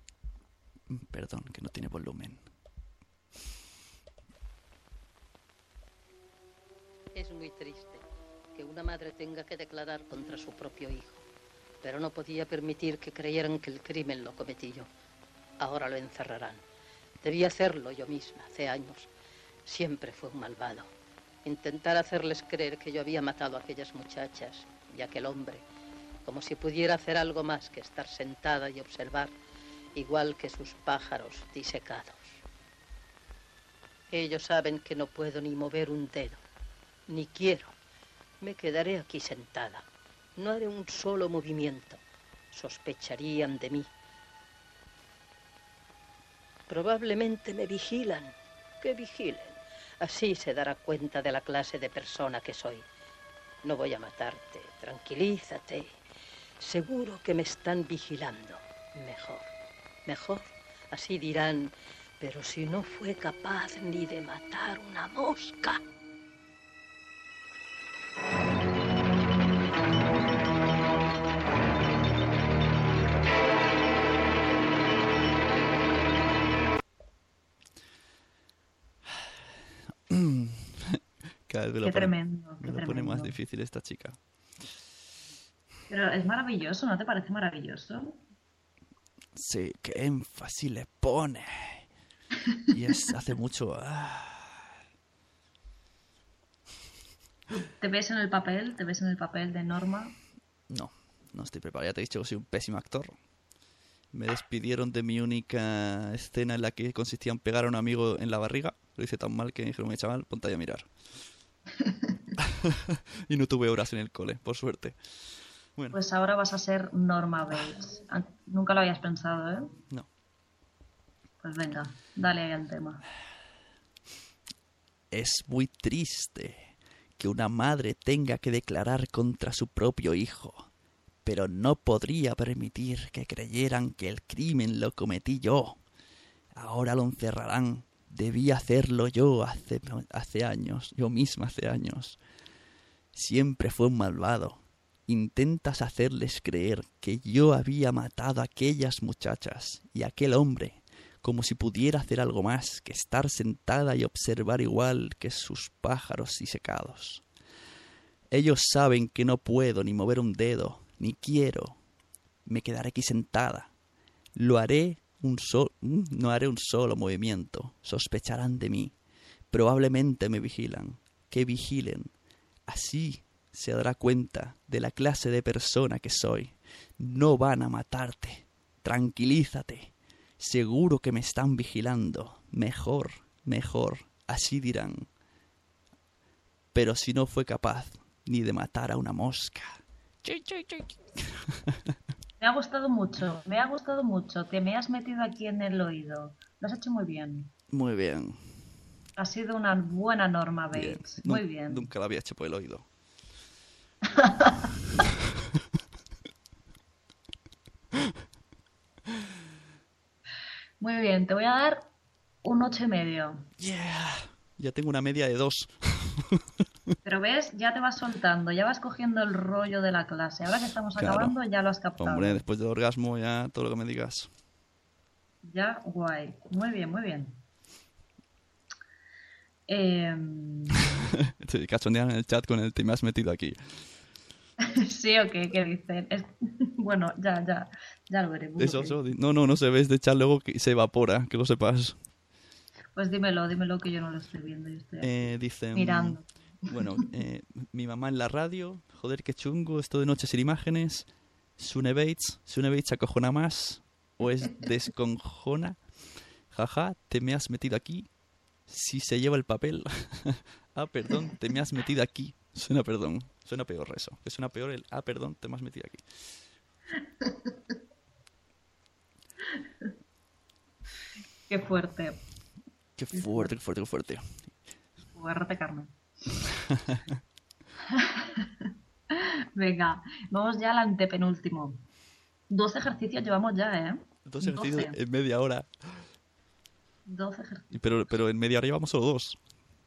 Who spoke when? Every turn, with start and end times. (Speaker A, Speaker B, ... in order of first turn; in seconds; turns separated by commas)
Speaker A: 0.9-2.4, Speaker B: 7.1-11.2, Speaker B: 11.8-14.9, Speaker B: 15.6-16.6, Speaker B: 17.2-19.1, Speaker B: 19.6-20.9, Speaker B: 21.4-25.6, Speaker B: 26.2-29.3, Speaker B: 29.9-32.4, Speaker B: 34.1-36.4, Speaker B: 37.1-37.7, Speaker B: 38.4-39.8, Speaker B: 40.4-43.9, Speaker B: 46.7-52.8, Speaker B: 53.6-55.9, Speaker B: 56.6-59.5, Speaker B: 60.0-65.8, Speaker A: 80.1-84.2, Speaker C: 81.8-83.4, Speaker C: 85.9-88.2, Speaker A: 89.3-91.9, Speaker A: 92.7-94.6, Speaker C: 97.5-100.2, Speaker A: 100.7-103.1, Speaker A: 104.1-110.9, Speaker C: 111.8-112.1, Speaker A: 112.4-112.8, Speaker A: 113.3-115.0, Speaker C: 115.9-119.7, Speaker C: 121.4-123.0, Speaker A: 125.1-130.7, Speaker A: 131.2-135.8, Speaker A: 136.5-142.2, Speaker A: 143.1-157.2, Speaker A: 158.3-161.8, Speaker A: 162.4-163.7, Speaker A: 164.3-168.9, Speaker A: 169.5-172.1, Speaker A: 172.7-185.1, Speaker A: 186.7-191.4, Speaker C: 192.4-197.5, Speaker A: 197.7-198.4, Speaker C: 199.2-201.9, Speaker A: 200.7-202.8, Speaker C: 204.1-204.7, Speaker C: 210.8-211.9, Speaker C: 212.4-213.5, Speaker A: 213.6-216.2, Speaker C: 217.0-222.4, Speaker A: 221.0-221.3, Speaker A: 222.0-224.3, Speaker C: 225.4-227.4, Speaker C: 229.7-230.8, Speaker A: 231.4-233.8, Speaker C: 234.6-239.0, Speaker A: 238.6-241.9, Speaker C: 242.9-247.0, Speaker A: 245.0-255.8, Speaker A: 256.5-258.1, Speaker A: 258.7-266.1, Speaker C: 267.2-267.5, Speaker C: 271.5-272.2, Speaker A: 273.0-274.3, Speaker C: 273.1-273.5, Speaker C: 275.1-275.9, Speaker A: 276.7-277.0, Speaker C: 277.9-281.8, Speaker C: 282.5-284.9, Speaker A: 284.2-286.0, Speaker C: 287.1-287.8, Speaker A: 287.7-289.4